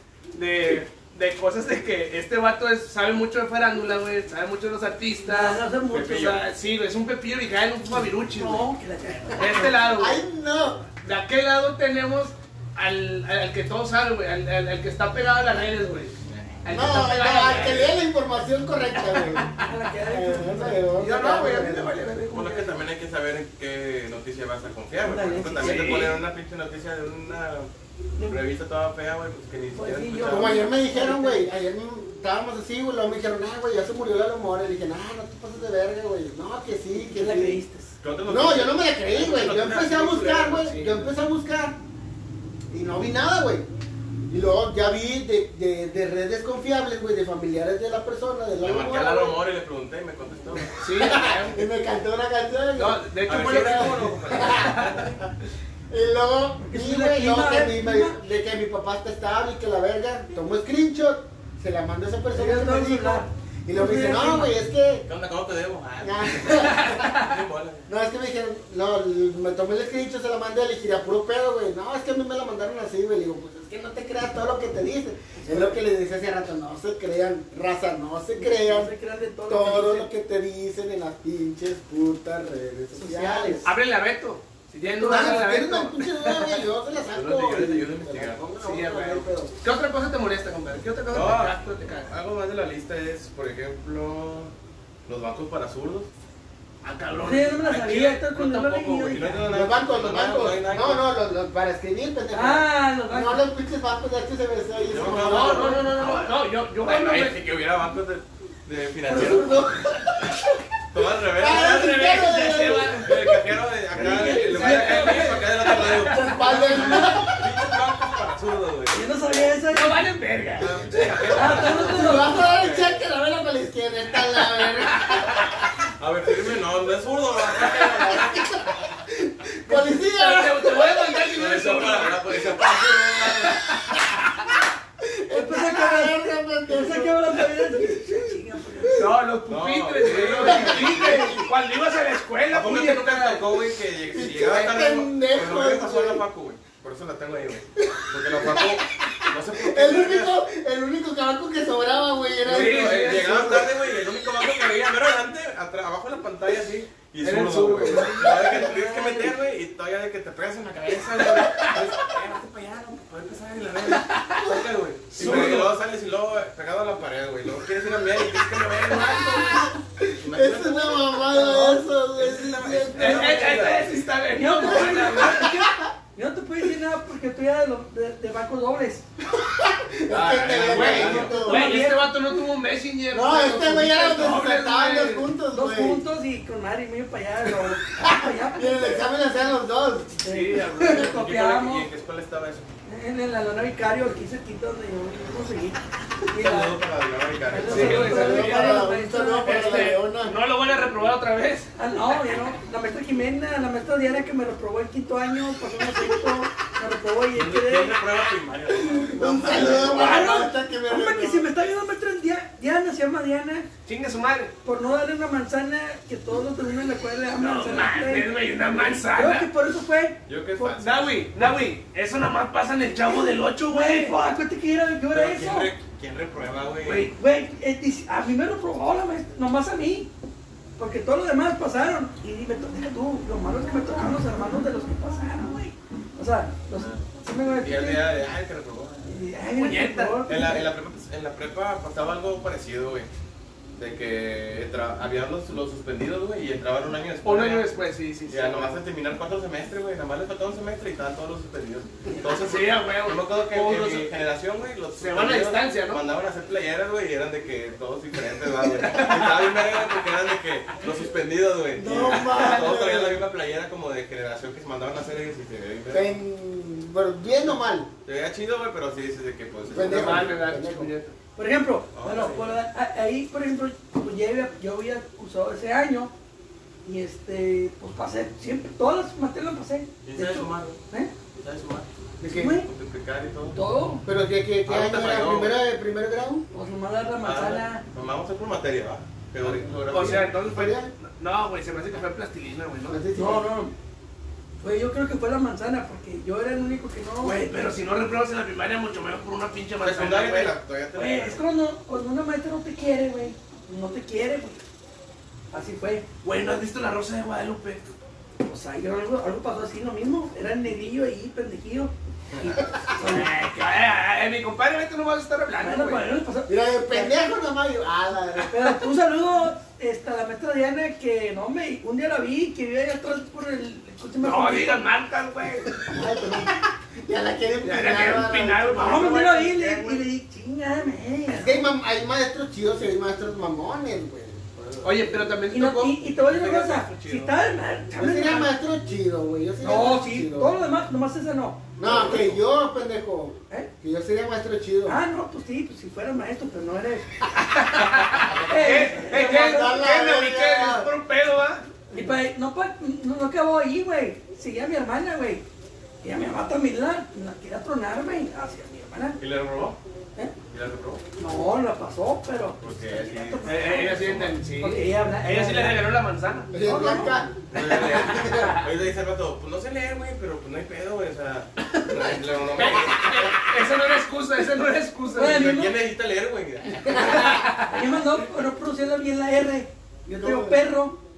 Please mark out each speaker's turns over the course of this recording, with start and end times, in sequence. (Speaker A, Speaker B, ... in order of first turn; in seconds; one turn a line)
Speaker A: 0.3-8.6
Speaker B: 5.3-6.3
Speaker C: 5.9-6.4
Speaker B: 8.3-9.8
Speaker A: 9.3-10.2
Speaker D: 9.5-10.9
Speaker A: 11.0-17.9
Speaker C: 16.3-16.6
Speaker D: 16.7-21.9
Speaker A: 19.0-19.6
Speaker B: 19.6-21.0
Speaker A: 20.9-22.8
Speaker C: 22.3-27.7
Speaker B: 25.0-26.1
Speaker A: 25.6-26.2
Speaker C: 28.2-30.6
Speaker B: 29.7-31.5
Speaker D: 30.2-37.6
Speaker B: 36.9-37.9
Speaker C: 38.0-40.8
Speaker D: 38.3-41.8
Speaker A: 40.6-40.9
Speaker D: 42.7-43.7
Speaker D: 44.3-49.4
Speaker C: 48.6-51.4
Speaker A: 50.8-51.6
Speaker D: 51.0-54.9
Speaker A: 52.7-55.0
Speaker C: 53.2-55.3
Speaker D: 55.9-65.0
Speaker B: 56.6-58.1
Speaker B: 62.3-64.5
Speaker C: 65.0-67.9
Speaker D: 66.0-67.0
Speaker A: 66.6-67.3
Speaker D: 67.9-78.9
Speaker B: 75.3-75.8
Speaker B: 78.3-80.1
Speaker D: 79.5-83.7
Speaker B: 82.9-83.7
Speaker A: 83.6-86.6
Speaker B: 84.9-85.5
Speaker D: 85.0-89.5
Speaker C: 87.1-88.4
Speaker A: 88.6-92.1
Speaker C: 91.1-94.5
Speaker C: 95.0-96.1
Speaker A: 96.8-97.8
Speaker B: 97.2-99.5
Speaker C: 97.6-101.0
Speaker D: 99.4-105.9
Speaker B: 102.3-103.4
Speaker C: 104.9-105.9
Speaker A: 105.2-107.4
Speaker B: 105.8-106.2
Speaker C: 106.8-109.7
Speaker B: 109.1-109.9
Speaker C: 110.9-112.2
Speaker D: 111.3-113.2
Speaker A: 111.4-113.3
Speaker C: 113.0-119.1
Speaker B: 113.9-117.0
Speaker A: 114.0-116.0
Speaker D: 115.8-117.5
Speaker B: 118.9-120.1
Speaker A: 119.7-121.9
Speaker C: 120.6-123.0
Speaker B: 121.3-122.4
Speaker D: 121.8-125.5
Speaker A: 124.7-125.7
Speaker C: 126.0-128.7
Speaker D: 127.5-131.3
Speaker B: 129.7-130.0
Speaker A: 130.1-134.5
Speaker C: 131.3-133.6
Speaker D: 135.0-139.1
Speaker B: 135.3-139.1
Speaker A: 138.9-143.6
Speaker C: 139.5-141.4
Speaker D: 140.1-141.4
Speaker C: 142.5-150.3
Speaker D: 144.1-146.2
Speaker D: 147.8-153.7
Speaker C: 152.4-169.6
Speaker A: 152.4-153.6
Speaker A: 157.2-158.6
Speaker B: 158.2-159.3
Speaker A: 161.4-161.8
Speaker A: 163.9-164.4
Speaker A: 165.1-165.7
Speaker A: 168.4-169.7
Speaker D: 169.0-173.8
Speaker C: 170.2-174.0
Speaker B: 171.3-171.8
Speaker A: 172.9-175.6
Speaker B: 174.3-179.1
Speaker D: 174.6-175.9
Speaker D: 179.4-181.7
Speaker C: 180.1-181.3
Speaker A: 180.4-185.3
Speaker B: 181.3-182.1
Speaker D: 183.1-186.0
Speaker B: 185.5-189.0
Speaker D: 187.8-190.2
Speaker B: 190.2-191.9
Speaker A: 190.2-191.2
Speaker C: 190.8-192.7
Speaker B: 192.9-196.7
Speaker C: 196.3-198.4
Speaker B: 197.5-199.9
Speaker A: 197.6-198.9
Speaker D: 197.7-200.3
Speaker A: 199.4-201.7
Speaker B: 201.8-208.0
Speaker C: 207.3-210.3
Speaker D: 208.7-211.5
Speaker B: 209.2-213.7
Speaker A: 209.5-210.3
Speaker A: 213.8-214.5
Speaker B: 214.6-218.3
Speaker A: 217.3-219.5
Speaker B: 219.1-220.8
Speaker C: 220.2-221.2
Speaker A: 220.8-224.1
Speaker B: 223.7-225.7
Speaker C: 225.1-227.1
Speaker A: 226.8-227.1
Speaker B: 227.1-230.1
Speaker B: 230.8-238.0
Speaker C: 236.8-239.1
Speaker B: 239.0-240.6
Speaker A: 239.6-240.2
Speaker C: 240.3-243.1
Speaker C: 243.8-247.7
Speaker A: 247.2-248.8
Speaker C: 248.3-266.1
Speaker A: 252.2-254.1
Speaker A: 255.0-256.0
Speaker A: 258.6-259.8
Speaker D: 261.7-263.2
Speaker A: 262.1-262.7
Speaker D: 265.9-267.9
Speaker C: 268.0-270.4
Speaker D: 269.7-270.9
Speaker A: 269.8-271.1
Speaker B: 271.4-276.1
Speaker C: 271.9-272.5
Speaker B: 276.8-281.1
Speaker C: 280.0-280.8
Speaker C: 281.4-281.9
Speaker D: 282.2-282.6
Speaker B: 282.3-282.7
Speaker C: 282.6-283.6
Speaker B: 283.5-284.0
Speaker D: 284.0-286.4
Speaker C: 284.6-285.5
Speaker B: 286.5-287.8
Speaker C: 287.2-290.3
Speaker D: 289.4-290.9
Speaker A: 289.9-293.0
Speaker D: 292.9-293.4
Speaker B: 293.1-293.7
Speaker B: 294.6-297.4
Speaker A: 297.2-300.5
Speaker C: 299.8-301.4
Speaker B: 300.9-304.6
Speaker B: 305.5-306.0
Speaker A: 306.2-307.9
Speaker B: 308.4-313.3
Speaker C: 312.3-312.6
Speaker A: 313.0-316.1
Speaker B: 315.6-317.2
Speaker D: 316.5-318.8
Speaker B: 318.5-324.8
Speaker A: 324.2-325.8
Speaker D: 325.9-329.4
Speaker A: 327.6-329.9
Speaker B: 328.8-331.6
Speaker D: 331.3-334.5
Speaker C: 334.6-334.9
Speaker A: 334.8-337.2
Speaker B: 335.5-338.5
Speaker C: 336.4-337.3
Speaker D: 337.9-340.6
Speaker B: 339.6-341.7
Speaker D: 341.8-345.0
Speaker C: 341.8-342.4
Speaker B: 344.9-347.1
Speaker A: 347.3-351.6
Speaker C: 348.2-349.1
Speaker B: 348.4-349.8
Speaker D: 349.1-350.9
Speaker B: 351.9-355.4
Speaker B: 356.0-359.2
Speaker C: 359.2-359.8
Speaker C: 360.5-361.0
Speaker B: 361.2-365.8
Speaker C: 362.6-364.4
Speaker A: 363.4-366.5
Speaker D: 366.5-368.6
Speaker B: 366.6-367.2
Speaker C: 367.5-373.5
Speaker A: 367.7-368.6
Speaker A: 372.5-375.5
Speaker B: 375.1-375.8
Speaker C: 375.2-377.4
Speaker A: 376.9-377.8
Speaker B: 377.6-381.0
Speaker D: 380.1-380.6